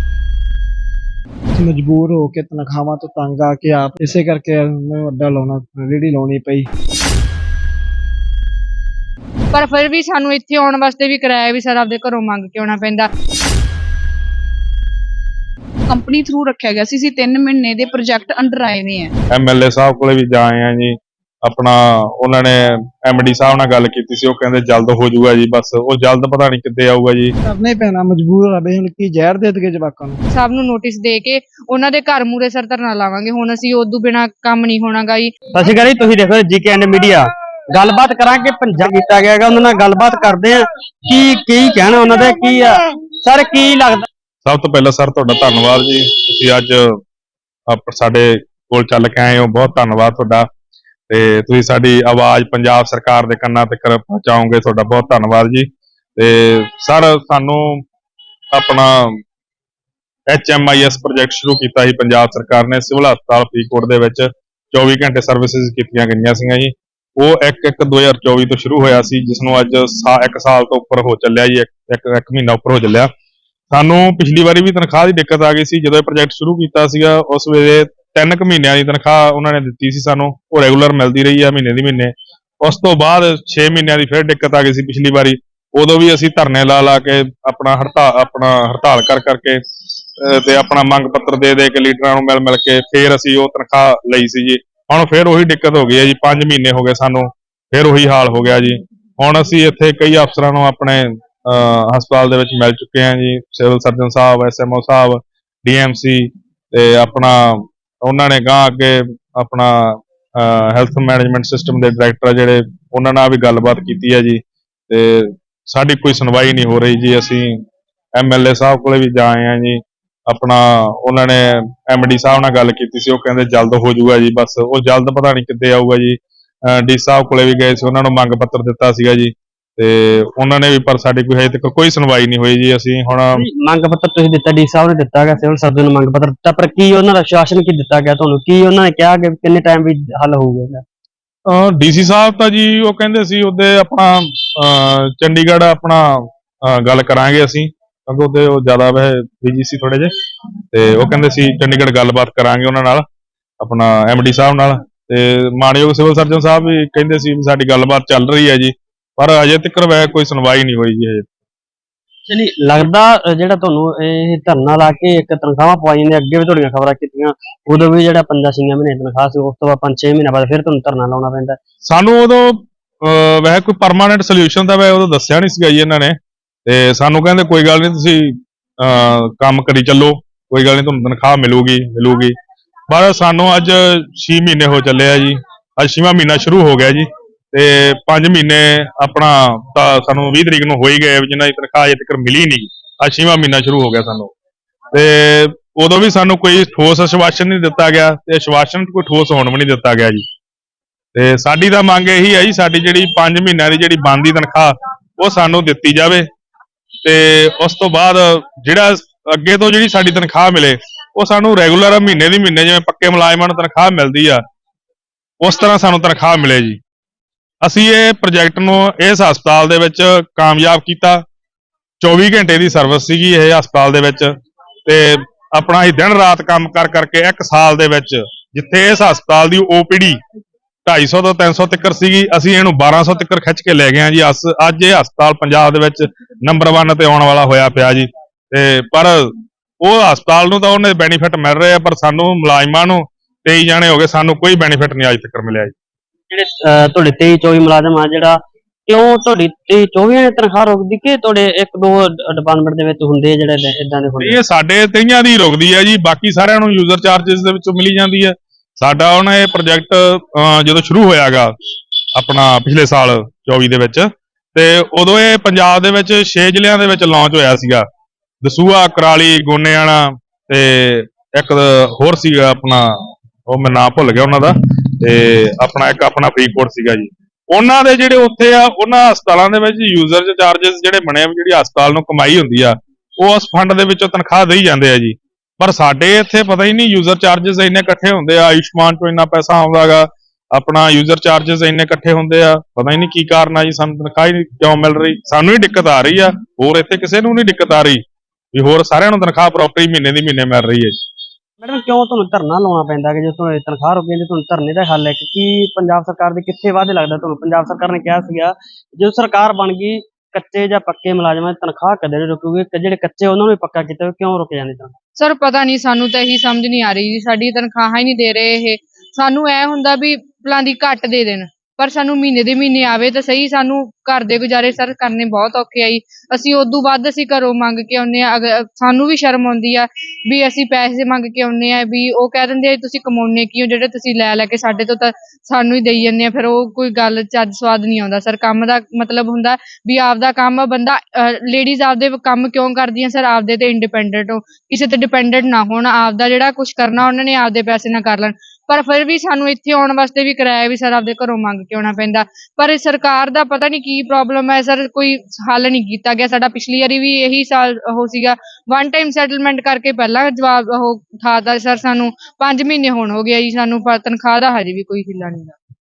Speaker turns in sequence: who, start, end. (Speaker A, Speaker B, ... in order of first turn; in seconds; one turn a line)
Speaker A: 1.6-6.7
Speaker B: 9.5-13.1
Speaker C: 15.9-19.1
Speaker D: 19.3-27.3
Speaker A: 27.4-30.2
Speaker B: 30.3-35.3
Speaker E: 35.5-44.1
Speaker D: 44.5-47.0
Speaker D: 47.7-50.5
Speaker D: 51.1-57.8
Speaker D: 58.5-59.2
Speaker D: 60.3-73.1
Speaker D: 73.7-89.6
Speaker D: 90.2-117.6
Speaker D: 118.2-133.4
Speaker E: 133.3-140.8
Speaker D: 141.5-150.1
Speaker D: 150.7-153.1
Speaker D: 153.6-161.3
Speaker E: 162.3-171.6
Speaker D: 171.9-182.3
Speaker D: 182.9-194.3
Speaker D: 194.9-200.2
Speaker D: 201.2-206.3
Speaker D: 207.0-214.4
Speaker D: 215.4-216.8
Speaker D: 217.6-221.2
Speaker D: 222.0-224.3
Speaker D: 224.9-230.2
Speaker D: 230.8-245.7
Speaker E: 246.3-254.4
Speaker D: 254.2-261.5
Speaker D: 262.2-267.9
Speaker D: 268.4-272.9
Speaker D: 273.5-298.0
Speaker D: 298.5-301.0
Speaker E: 301.6-315.0
Speaker B: 315.2-365.6